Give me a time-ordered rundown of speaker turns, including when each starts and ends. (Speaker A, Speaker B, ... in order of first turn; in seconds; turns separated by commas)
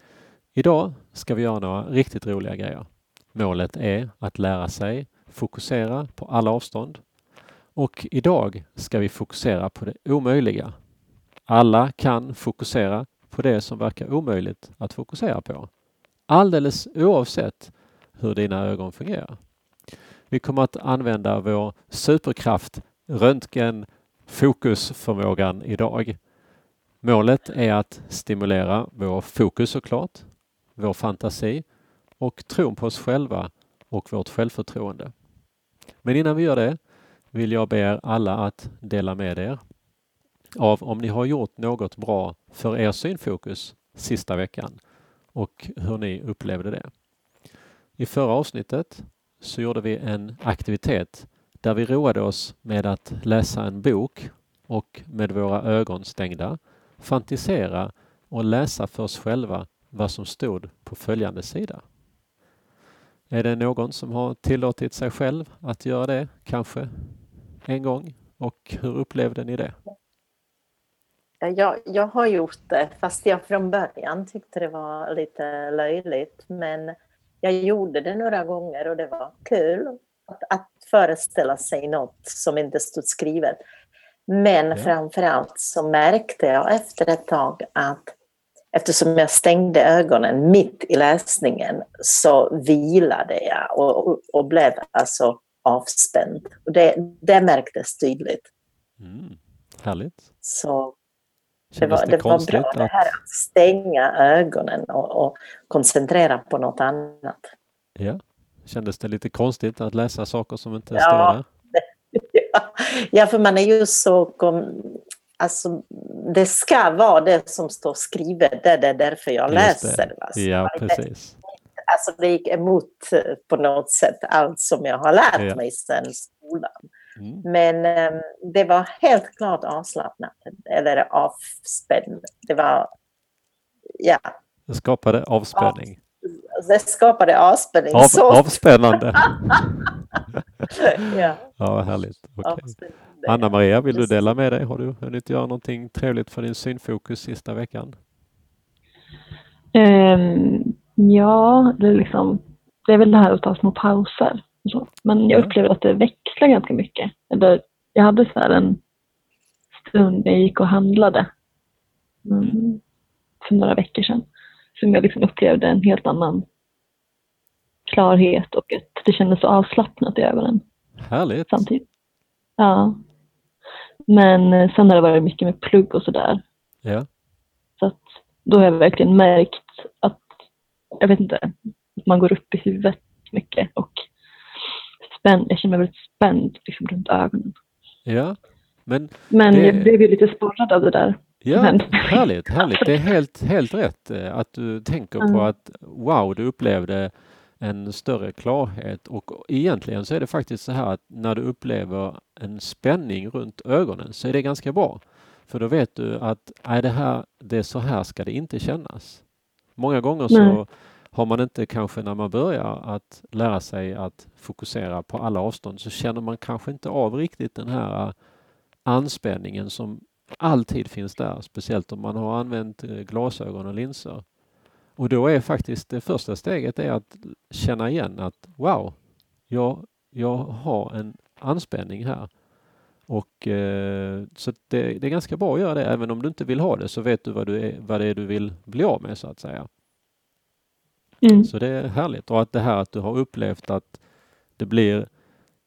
Speaker A: 0.5-7.2, Speaker A: 7.7-10.8, Speaker A: 11.5-26.3, Speaker A: 27.0-35.1, Speaker A: 36.0-39.6, Speaker A: 40.6-47.1, Speaker A: 48.0-61.8, Speaker A: 63.3-69.7, Speaker B: 71.4-83.6, Speaker B: 84.3-88.1, Speaker B: 88.7-98.5, Speaker A: 99.0-100.3, Speaker B: 100.4-101.0, Speaker A: 101.7-103.1, Speaker B: 101.8-107.5, Speaker A: 108.0-111.5, Speaker B: 111.0-121.0, Speaker A: 119.5-121.4, Speaker B: 121.9-126.7, Speaker A: 127.2-127.5, Speaker B: 127.5-132.9, Speaker A: 134.7-136.0, Speaker B: 135.6-138.6, Speaker A: 137.9-140.0, Speaker B: 141.1-141.5, Speaker A: 141.5-147.9, Speaker B: 142.4-144.3, Speaker C: 149.7-158.8, Speaker C: 159.8-161.3, Speaker C: 162.3-162.8, Speaker C: 163.4-166.5, Speaker C: 167.9-170.6, Speaker A: 171.0-171.6, Speaker C: 171.5-171.8, Speaker C: 172.6-173.0, Speaker C: 174.1-176.4, Speaker C: 177.8-180.2, Speaker C: 181.0-184.1, Speaker C: 185.1-187.6, Speaker A: 188.1-189.9, Speaker C: 189.3-192.9, Speaker A: 191.4-218.3, Speaker C: 195.2-195.5, Speaker C: 210.3-210.6, Speaker A: 218.8-224.4, Speaker A: 224.9-232.4, Speaker A: 233.1-239.7, Speaker C: 241.2-241.5, Speaker A: 241.4-245.2